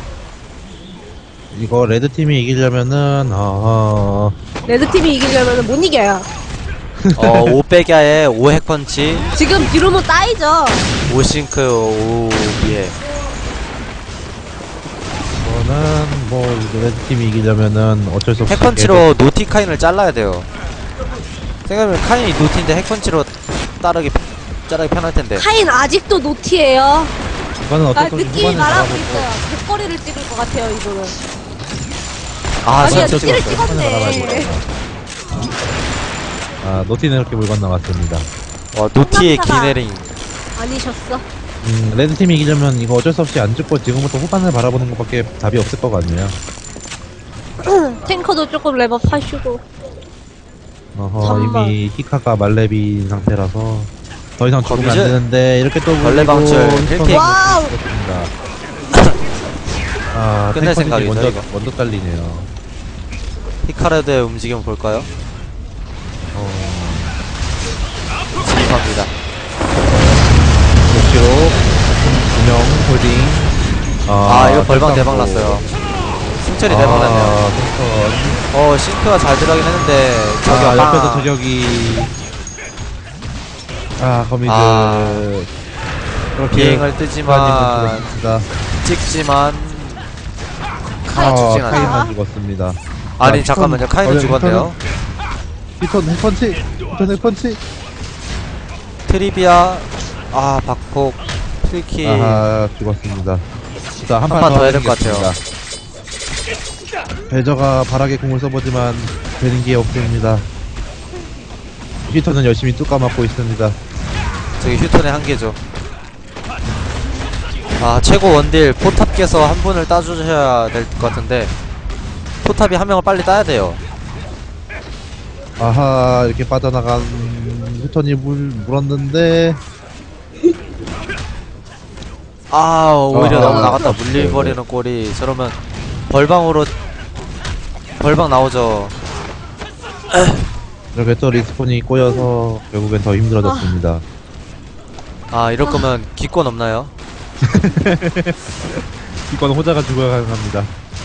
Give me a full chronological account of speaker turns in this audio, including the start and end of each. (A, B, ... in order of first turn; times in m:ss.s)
0:01.5-0:04.4 A
0:04.7-0:06.3 B
0:07.0-0:07.6 A
0:07.2-0:09.3 C
0:09.4-0:10.9 B
0:11.1-0:13.0 C
0:15.4-0:19.1 A
0:18.5-0:20.5 C
0:21.7-0:25.4 C
0:25.4-0:27.1 B
0:27.6-0:29.3 A
0:27.9-0:31.2 B
0:32.6-0:33.7 C
0:32.8-0:34.5 B
0:32.8-0:34.7 A
0:36.6-0:38.3 A
0:38.7-0:40.1 C
0:39.0-0:39.8 B
0:40.6-0:41.2 B
0:41.6-0:46.4 A
0:47.6-0:49.6 B
0:51.0-0:58.3 A
0:51.2-0:51.8 B
0:54.6-0:55.2 C
0:56.0-0:57.3 C
0:57.1-0:57.7 B
1:00.1-1:02.5 A
1:00.5-1:01.5 C
1:03.6-1:05.1 C
1:06.3-1:07.2 A
1:08.4-1:09.1 C
1:10.9-1:13.5 A
1:14.1-1:15.7 A
1:14.2-1:15.7 C
1:16.4-1:17.4 C
1:16.7-1:18.4 A
1:18.5-1:21.3 C
1:20.5-1:22.1 A
1:24.0-1:25.5 A
1:24.4-1:25.3 C
1:26.4-1:28.5 A
1:26.5-1:28.1 C
1:28.8-1:30.0 C
1:31.1-1:32.0 C
1:31.1-1:32.1 B
1:31.2-1:34.7 A
1:33.2-1:34.8 C
1:35.8-1:37.6 A
1:39.1-1:42.5 C
1:42.0-1:43.4 A
1:44.0-1:45.4 A
1:44.3-1:45.3 C
1:47.3-1:50.5 A
1:52.1-1:53.8 A
1:54.6-1:55.6 C
1:57.8-2:01.6 C
2:02.4-2:03.8 C
2:05.6-2:09.6 A
2:12.5-2:15.6 C
2:13.1-2:14.6 A
2:16.1-2:16.7 C
2:18.0-2:19.0 C
2:20.1-2:20.4 C
2:20.9-2:24.0 A
2:23.4-2:23.7 B
2:25.3-2:26.9 C
2:25.6-2:25.9 B
2:27.4-2:30.7 A